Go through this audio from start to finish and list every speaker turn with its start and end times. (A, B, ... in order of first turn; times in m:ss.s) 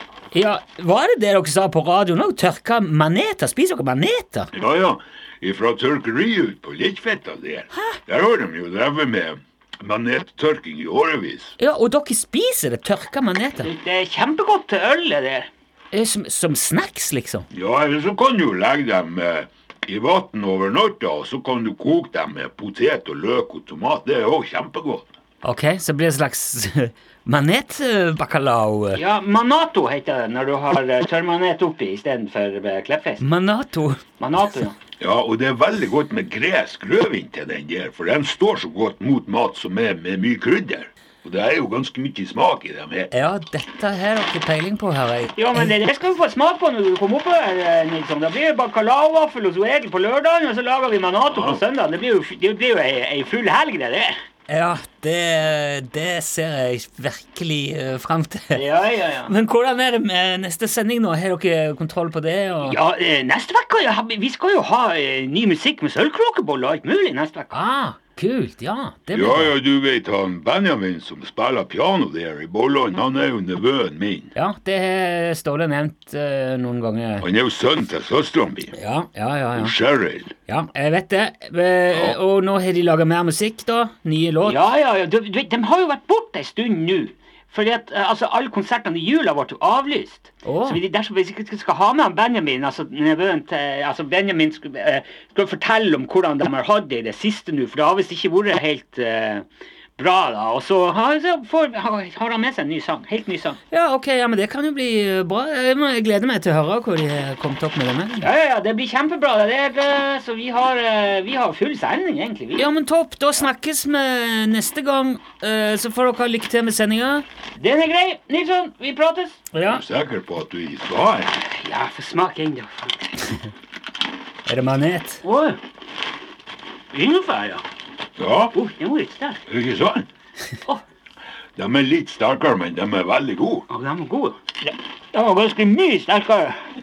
0:00.3-0:04.5 A
0:04.5-0:11.6 B
0:11.6-0:13.7 A
0:13.6-0:15.5 C
0:15.9-0:17.5 A
0:17.5-0:25.1 B
0:25.4-0:29.0 A
0:28.9-0:33.2 C
0:33.2-0:34.0 A
0:34.2-0:34.8 C
0:35.0-0:43.1 B
0:43.1-0:45.7 A
0:45.4-0:54.1 C
0:51.3-0:51.6 B
0:54.5-0:58.6 A
0:58.5-0:59.3 C
0:59.3-1:02.8 A
1:02.6-1:07.5 C
1:07.5-1:09.6 A
1:09.1-1:14.3 B
1:14.4-1:17.3 A
1:17.2-1:18.7 B
1:18.7-1:19.7 A
1:19.5-1:20.3 B
1:20.5-1:24.6 A
1:21.9-1:22.2 B
1:24.4-1:39.4 C
1:30.4-1:30.8 A
1:40.0-1:43.6 C
1:43.7-1:48.3 A
1:48.2-1:52.7 C
1:52.6-1:57.2 A
1:57.6-1:59.4 C
1:59.5-1:59.8 A
1:59.6-2:01.3 B
2:01.3-2:03.3 C
2:04.5-2:05.2 A
2:05.2-2:05.6 C
2:06.9-2:07.6 C
2:08.2-2:08.5 B
2:08.5-2:09.4 C
2:09.5-2:10.1 B
2:11.6-2:13.7 B
2:13.7-2:16.6 C